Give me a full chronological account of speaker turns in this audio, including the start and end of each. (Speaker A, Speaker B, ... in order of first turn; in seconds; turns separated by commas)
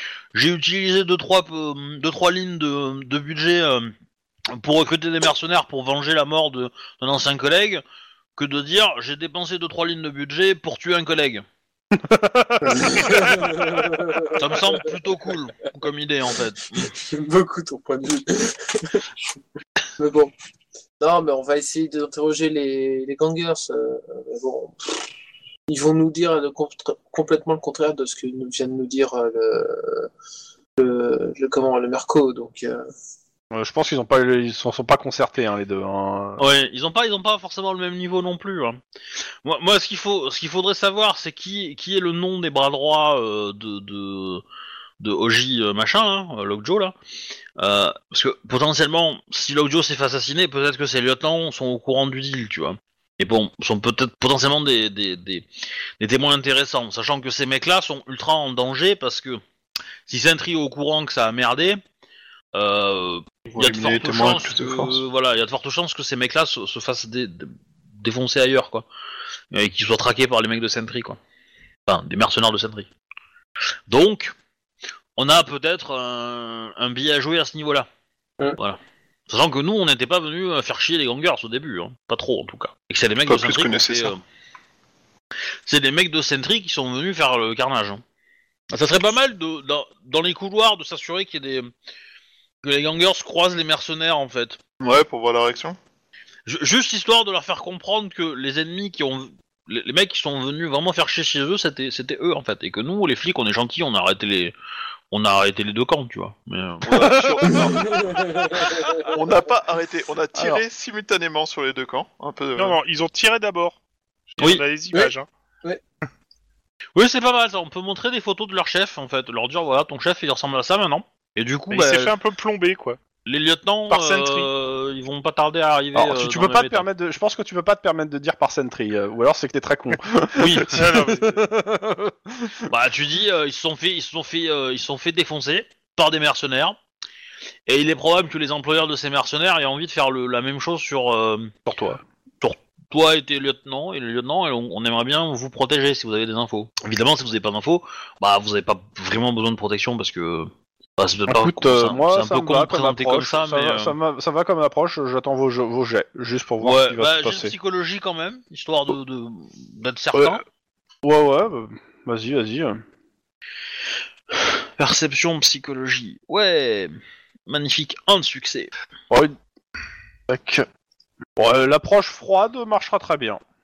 Speaker A: 0.3-3.9, Speaker A: 4.5-7.8, Speaker A: 8.3-11.4, Speaker B: 11.9-13.7, Speaker C: 12.8-14.8, Speaker A: 14.3-16.9, Speaker C: 16.8-19.1, Speaker C: 20.0-20.3, Speaker C: 21.0-25.0, Speaker C: 25.7-30.1, Speaker C: 30.8-32.8, Speaker B: 33.5-36.4, Speaker A: 36.4-38.8, Speaker A: 39.4-44.4, Speaker A: 45.0-46.9, Speaker A: 47.6-55.5, Speaker A: 56.0-59.4, Speaker A: 60.1-61.8, Speaker A: 62.5-68.8, Speaker D: 63.5-65.0, Speaker A: 69.5-71.2, Speaker A: 71.9-72.9, Speaker A: 73.9-74.3, Speaker A: 75.2-77.9, Speaker A: 78.6-84.2, Speaker D: 83.2-84.1, Speaker A: 85.7-88.0, Speaker A: 88.7-91.7, Speaker A: 92.6-94.6, Speaker D: 94.8-95.8, Speaker A: 96.5-104.5, Speaker A: 105.1-107.7, Speaker B: 106.9-107.8, Speaker D: 107.0-112.8, Speaker C: 107.6-109.1, Speaker B: 110.3-110.6, Speaker E: 112.5-113.8, Speaker E: 114.3-115.3, Speaker A: 114.4-114.6, Speaker A: 116.9-122.1, Speaker E: 121.7-123.0, Speaker A: 123.2-126.9, Speaker E: 123.9-124.5, Speaker B: 125.9-132.7, Speaker A: 130.3-130.7, Speaker E: 130.6-131.4, Speaker A: 132.7-136.8, Speaker A: 137.7-141.5, Speaker B: 141.7-142.0, Speaker A: 142.4-153.9, Speaker B: 151.3-157.5, Speaker A: 156.6-160.4, Speaker B: 160.1-160.4, Speaker B: 161.0-162.8, Speaker A: 164.3-166.9, Speaker A: 167.4-168.7, Speaker B: 170.3-170.7, Speaker B: 171.4-173.4